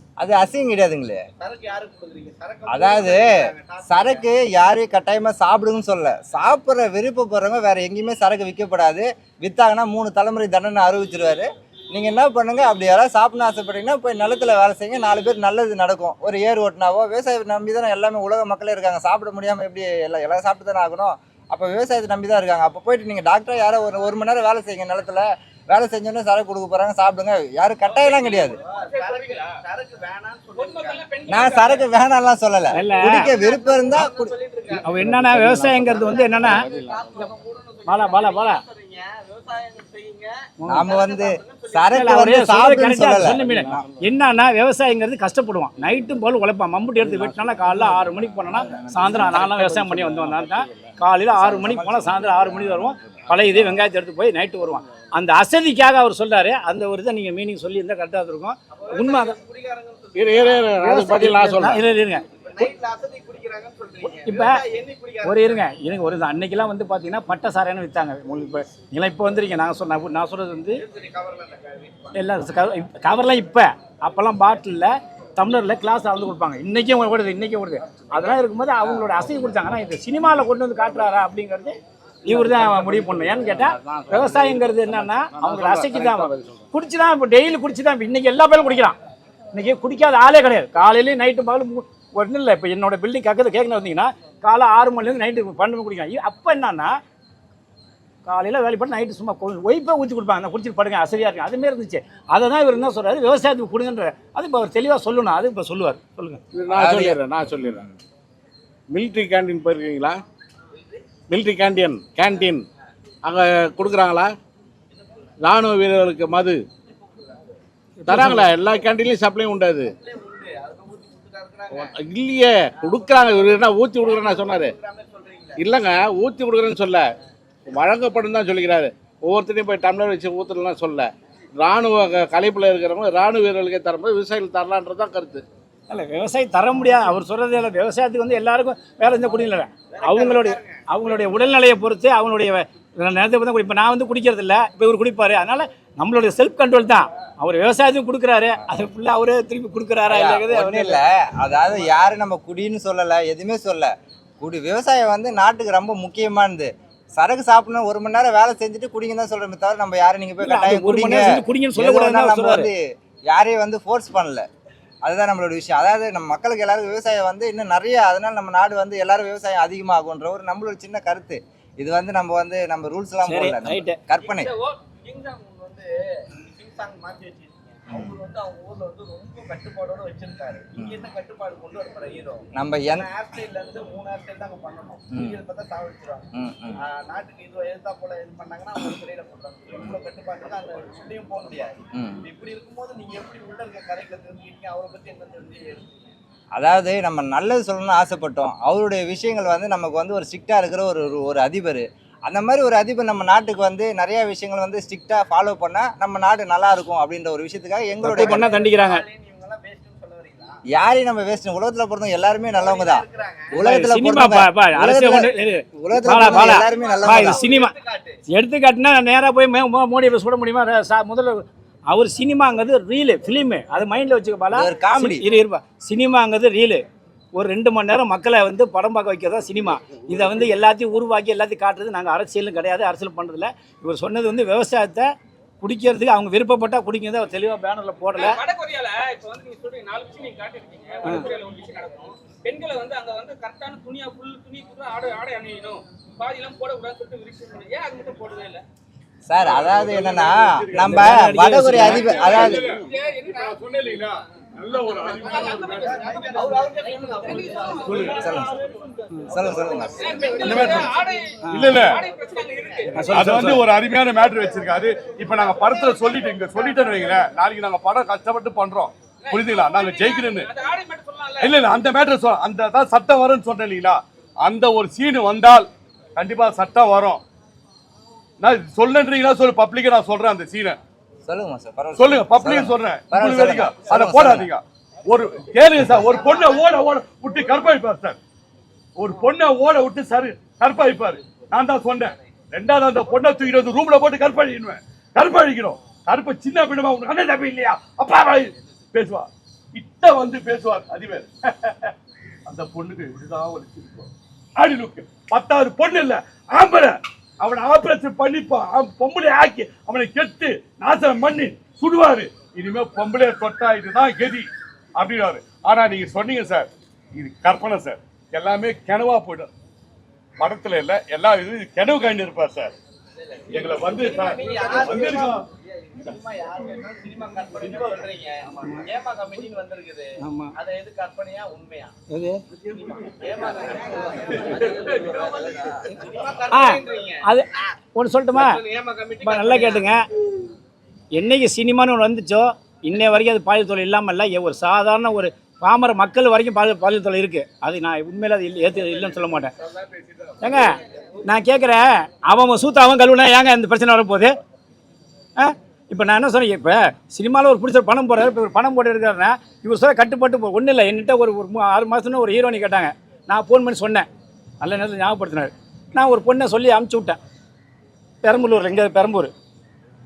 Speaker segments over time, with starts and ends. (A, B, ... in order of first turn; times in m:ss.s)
0:00.2-0:01.2 A
0:01.4-0:04.3 B
0:02.7-0:28.6 A
0:27.8-0:31.1 B
0:28.5-0:29.6 C
0:30.6-0:31.9 C
0:31.3-0:34.3 A
0:32.7-0:33.3 D
0:33.2-0:34.9 B
0:34.8-0:36.6 D
0:35.0-0:37.2 E
0:36.1-0:41.9 B
0:37.8-0:38.6 D
0:40.6-0:40.9 D
0:40.7-0:43.4 A
0:41.9-0:59.4 D
0:43.5-0:43.8 E
0:47.0-0:48.0 E
0:48.4-0:49.6 A
0:49.5-0:50.3 E
0:51.4-0:52.9 A
0:58.7-1:00.7 B
1:00.1-1:01.8 E
1:00.8-1:02.2 D
1:02.2-1:05.7 B
1:04.0-1:04.6 D
1:05.2-1:10.8 D
1:10.7-1:12.2 B
1:12.1-1:29.0 D
1:22.3-1:26.6 E
1:29.5-1:37.0 D
1:38.2-1:46.4 D
1:46.5-1:47.8 E
1:46.7-1:47.9 A
1:48.9-1:50.2 E
1:51.3-1:52.6 E
1:53.2-1:54.3 E
1:55.4-1:56.6 E
1:58.0-1:58.4 D
1:58.0-1:59.9 E
2:00.0-2:01.9 B
2:01.8-2:04.7 E
2:02.8-2:05.6 B
2:05.6-2:07.1 E
2:07.7-2:15.4 E
2:15.9-2:31.0 D
2:20.0-2:20.8 B
2:30.1-2:44.5 A
2:40.4-2:42.7 D
2:45.0-2:54.5 A
2:53.2-2:54.0 D
2:54.2-3:02.4 B
2:54.4-2:54.8 C
2:57.9-2:58.1 A
3:00.8-3:01.1 A
3:02.5-3:03.1 A
3:03.0-3:06.3 B
3:05.1-3:05.4 A
3:06.3-3:06.8 A
3:06.8-3:16.1 B
3:11.9-3:12.2 A
3:16.5-3:28.5 A
3:28.0-3:29.0 D
3:28.4-3:30.6 B
3:30.7-3:37.4 A
3:32.5-3:33.5 B
3:33.6-3:37.7 D
3:36.7-3:38.2 B
3:38.3-3:46.8 D
3:44.5-3:45.2 A
3:47.3-3:58.4 D
3:58.2-4:08.6 C
4:09.3-4:12.8 A
4:09.4-4:10.3 F
4:10.8-4:12.6 D
4:11.8-4:12.8 F
4:12.3-4:13.6 C
4:13.4-4:15.8 F
4:15.0-4:18.2 B
4:15.2-4:18.5 C
4:18.1-4:18.5 A
4:19.3-4:20.5 A
4:19.7-4:20.3 B
4:20.0-4:23.1 C
4:20.4-4:20.9 F
4:21.5-4:21.9 D
4:21.5-4:22.0 F
4:22.9-4:23.6 D
4:23.1-4:30.5 F
4:25.5-4:26.6 C
4:29.2-4:31.7 C
4:31.4-4:37.2 F
4:38.4-4:40.8 F
4:41.2-4:44.5 A
4:41.9-4:48.2 F
4:49.0-5:01.9 F
5:02.4-5:19.5 F
5:20.4-5:22.7 F
5:23.2-5:31.9 B
5:23.5-5:25.4 F
5:30.2-5:30.5 D
5:32.1-5:32.4 D
5:32.8-5:37.2 B
5:36.5-5:38.6 D
5:38.3-5:39.9 B
5:39.2-5:40.0 D
5:41.1-5:49.5 D
5:50.4-5:54.4 D
5:55.4-6:04.1 D
6:04.6-6:07.2 D
6:08.2-6:09.3 D